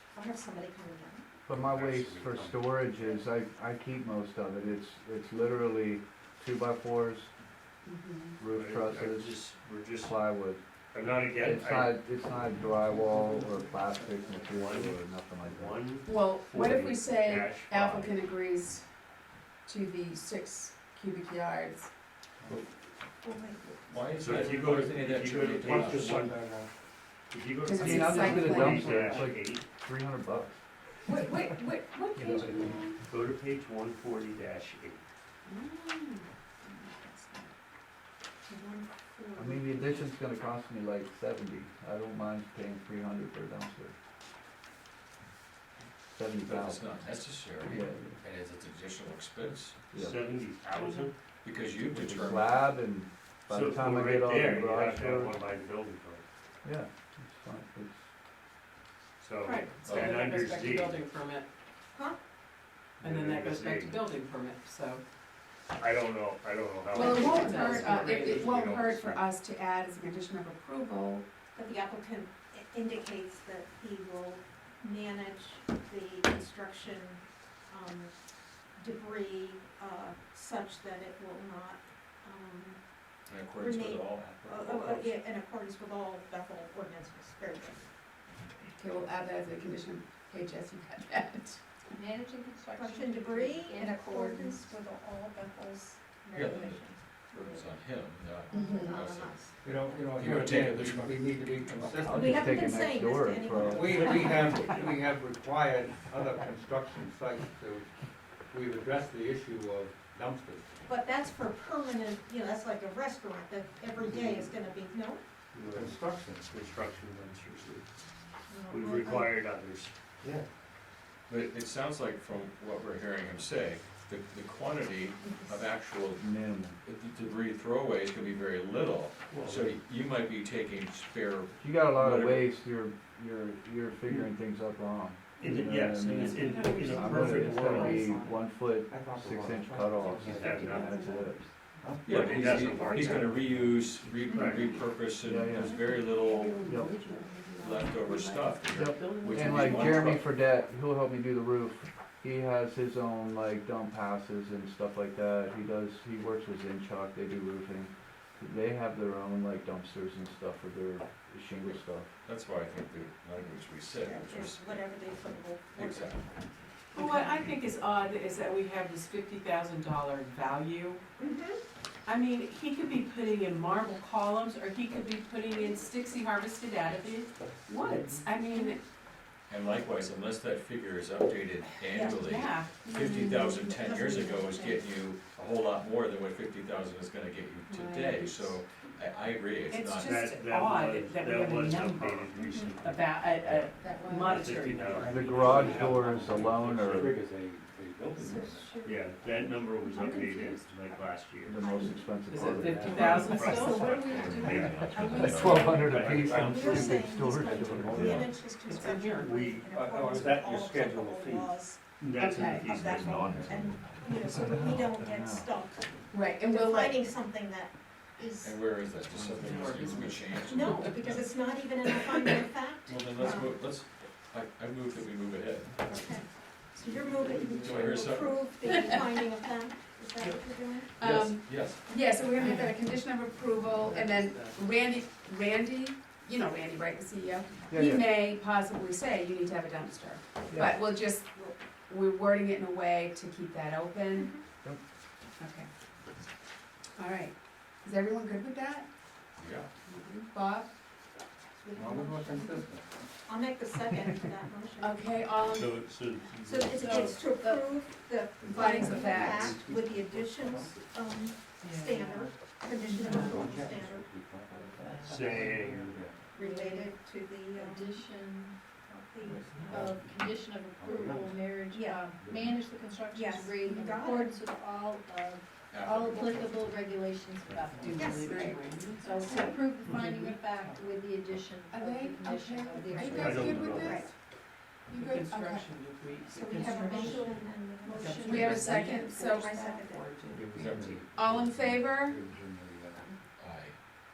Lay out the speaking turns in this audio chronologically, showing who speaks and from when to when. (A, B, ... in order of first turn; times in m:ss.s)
0:00.1-0:01.2 A
0:01.5-0:07.3 B
0:01.5-0:02.8 C
0:07.8-0:08.4 D
0:08.4-0:09.4 B
0:08.4-0:10.2 C
0:10.0-0:10.6 B
0:10.9-0:12.0 C
0:11.3-0:15.8 B
0:13.0-0:18.2 C
0:16.0-0:18.9 D
0:19.6-0:21.9 D
0:23.2-0:24.3 A
0:23.9-0:26.1 E
0:24.1-0:26.4 C
0:25.6-0:26.7 F
0:27.3-0:29.6 C
0:27.6-0:29.2 D
0:27.7-0:30.6 B
0:31.0-0:32.9 D
0:31.1-0:32.2 A
0:32.2-0:32.6 B
0:32.2-0:35.0 C
0:35.5-0:37.5 D
0:38.5-0:40.1 A
0:39.4-0:43.9 B
0:46.1-0:46.8 B
0:46.4-0:49.8 E
0:47.6-0:48.2 B
0:49.9-0:51.1 C
0:49.9-0:50.2 B
0:51.4-0:52.7 E
0:51.9-0:55.4 B
0:53.5-0:56.2 C
0:56.6-0:58.1 B
0:59.2-1:01.0 C
0:59.4-1:01.5 G
0:59.8-1:00.2 E
1:01.9-1:02.2 A
1:03.0-1:04.0 C
1:03.0-1:05.0 G
1:05.8-1:09.2 C
1:06.9-1:11.2 D
1:07.4-1:08.4 G
1:11.5-1:18.1 A
1:18.8-1:22.8 A
1:23.3-1:25.2 E
1:23.6-1:27.8 A
1:28.6-1:31.6 D
1:31.9-1:34.7 H
1:32.7-1:37.7 A
1:36.3-1:39.4 E
1:38.5-1:39.5 A
1:38.5-1:39.0 D
1:39.6-1:42.6 F
1:40.0-1:41.6 E
1:42.0-1:44.1 B
1:42.0-1:44.8 A
1:43.6-1:47.9 F
1:48.5-1:50.6 F
1:50.8-1:55.2 A
1:54.0-1:54.5 F
1:55.5-1:57.9 C
1:55.6-1:56.5 F
1:58.5-1:59.4 A
1:58.7-1:59.9 C
2:00.2-2:00.4 F
2:01.3-2:06.3 E
2:06.2-2:06.8 B
2:06.8-2:12.5 E
2:09.3-2:09.8 C
2:11.6-2:21.5 B
2:15.4-2:18.0 C
2:16.3-2:18.4 G
2:18.9-2:21.1 F
2:20.2-2:21.0 C
2:21.8-2:23.7 F
2:22.0-2:23.6 C
2:22.0-2:26.6 E
2:24.2-2:24.8 C
2:25.2-2:25.7 B
2:25.7-2:30.2 G
2:26.6-2:26.9 B
2:27.6-2:30.3 E
2:28.7-2:42.1 B
2:42.2-2:44.8 E
2:43.9-2:46.5 A
2:45.7-2:46.2 E
2:46.9-2:51.0 G
2:51.2-2:51.6 A
2:52.0-2:58.7 G
2:58.1-2:58.8 D
2:59.5-3:10.1 E
3:02.0-3:02.8 G
3:02.8-3:04.8 D
3:07.7-3:08.5 D
3:09.7-3:16.4 G
3:10.0-3:13.7 C
3:12.4-3:12.8 A
3:13.8-3:14.4 D
3:14.2-3:17.2 C
3:15.0-3:18.7 F
3:15.0-3:17.2 B
3:18.2-3:20.6 H
3:18.8-3:21.6 C
3:21.5-3:23.5 B
3:21.6-3:22.3 A
3:22.3-3:24.0 G
3:22.4-3:23.8 F
3:22.8-3:27.1 C
3:23.3-3:25.6 D
3:23.6-3:35.8 A
3:24.0-3:25.7 E
3:24.8-3:28.4 B
3:26.4-3:26.7 F
3:27.4-3:28.0 F
3:27.8-3:28.3 C
3:28.5-3:29.3 G
3:29.1-3:33.8 C
3:29.7-3:31.2 F
3:32.2-3:32.8 D
3:33.6-3:35.5 B
3:36.1-3:37.0 D
3:36.4-3:37.7 A
3:38.2-3:38.4 H
3:38.4-3:41.2 E
3:39.3-3:40.1 F
3:39.4-3:41.0 G
3:40.5-3:43.6 A
3:42.9-3:45.8 E
3:45.8-3:50.9 A
3:46.9-3:47.6 G
3:47.6-3:48.4 E
3:48.6-3:49.0 D
3:51.0-4:04.3 D
3:51.0-3:51.9 E
3:52.3-3:52.8 G
3:53.8-3:54.6 G
3:57.7-3:58.2 B
4:04.1-4:04.4 A
4:05.4-4:05.7 D
4:07.0-4:08.9 D
4:09.4-4:09.7 E
4:09.9-4:10.7 D
4:11.6-4:12.6 D
4:11.7-4:12.9 F
4:13.3-4:15.6 A
4:14.8-4:15.7 D
4:15.5-4:17.2 C
4:16.4-4:24.1 A
4:16.8-4:17.7 H
4:18.4-4:20.8 F
4:18.5-4:19.6 D
4:18.8-4:19.5 H
4:21.6-4:22.3 G
4:22.8-4:23.6 G
4:23.0-4:26.3 F
4:24.7-4:25.9 G
4:25.0-4:26.0 C
4:26.3-4:28.0 A
4:26.4-4:26.9 H
4:27.5-4:28.6 H
4:28.8-4:29.9 A
4:29.2-4:31.4 F
4:29.7-4:44.1 H
4:31.7-4:32.0 A
4:32.2-4:32.4 F
4:33.1-4:34.4 A
4:35.7-4:36.7 E
4:37.8-4:40.8 G
4:37.9-4:38.3 A
4:38.1-4:38.6 D
4:39.2-4:39.6 A
4:41.7-4:44.1 D
4:43.1-4:44.0 C
4:43.6-4:44.0 A
4:44.9-4:45.7 D
4:44.9-4:47.3 G
4:46.3-4:50.1 A
4:46.6-4:47.2 D
4:47.9-4:51.0 G
4:48.0-4:48.4 H
4:48.2-4:49.8 D
4:50.3-4:53.2 F
4:50.6-4:50.9 E
4:51.0-4:52.2 D
4:53.4-4:53.8 E